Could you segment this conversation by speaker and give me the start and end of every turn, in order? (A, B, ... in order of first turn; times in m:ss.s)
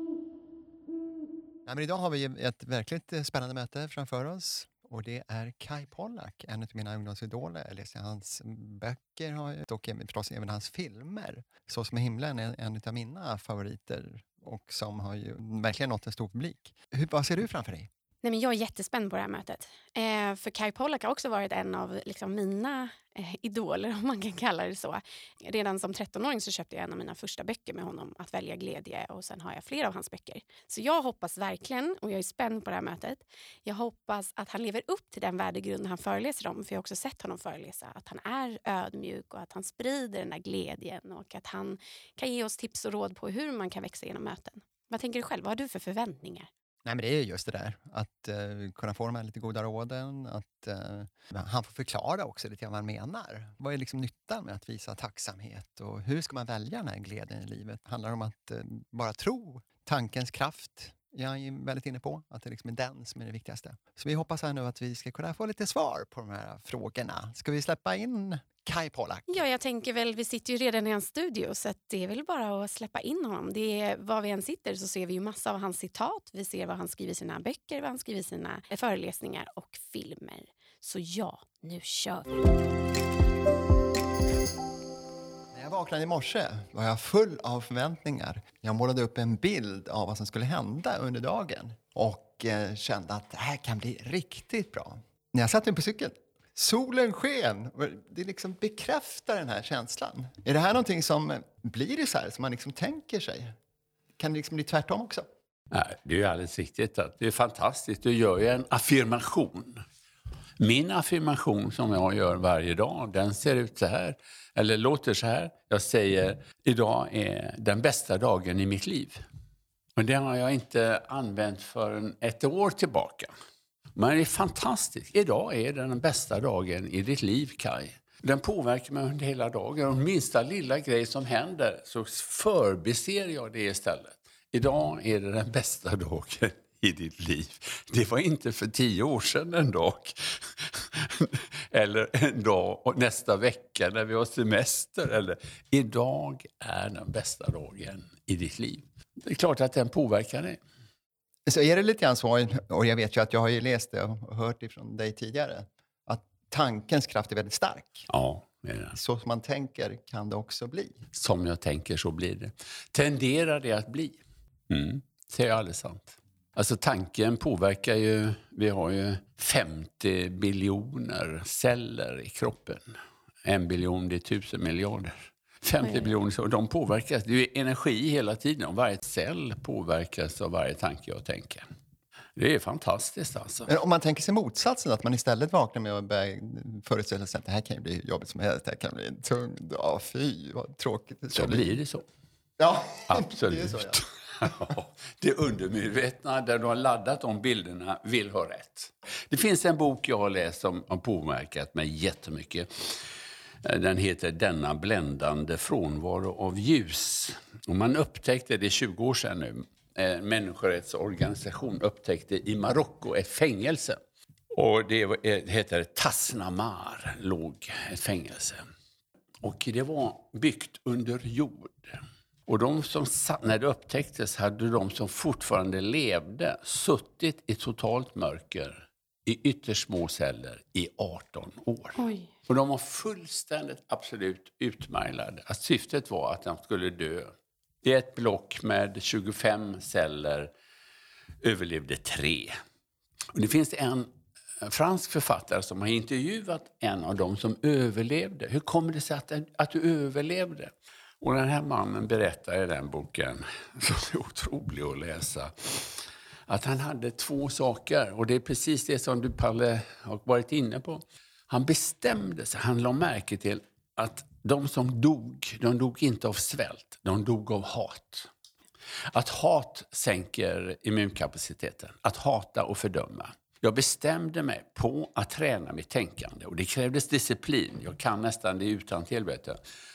0:01.7-0:17.9 A
0:18.2-0:46.5 B
0:46.8-1:09.4 A
1:09.3-1:22.3 B
1:25.5-1:43.5 A
1:44.2-1:45.3 A
1:45.7-1:49.8 C
1:50.6-1:59.2 C
2:00.0-2:03.3 C
2:04.0-2:30.6 C
2:31.5-2:38.1 A
2:38.1-2:39.0 C
2:38.9-2:41.0 A
2:41.1-3:01.6 C
2:55.8-2:56.1 B
3:02.4-3:03.7 C
3:03.7-3:11.8 A
3:11.3-3:12.0 C
3:12.6-3:14.0 A
3:13.1-3:23.0 C
3:23.6-3:34.0 C
3:34.5-3:38.6 C
3:39.4-4:00.5 C
3:52.0-3:52.3 B
4:01.4-4:02.6 C
4:03.3-4:04.1 C
4:04.6-4:28.3 C
4:29.1-4:39.6 C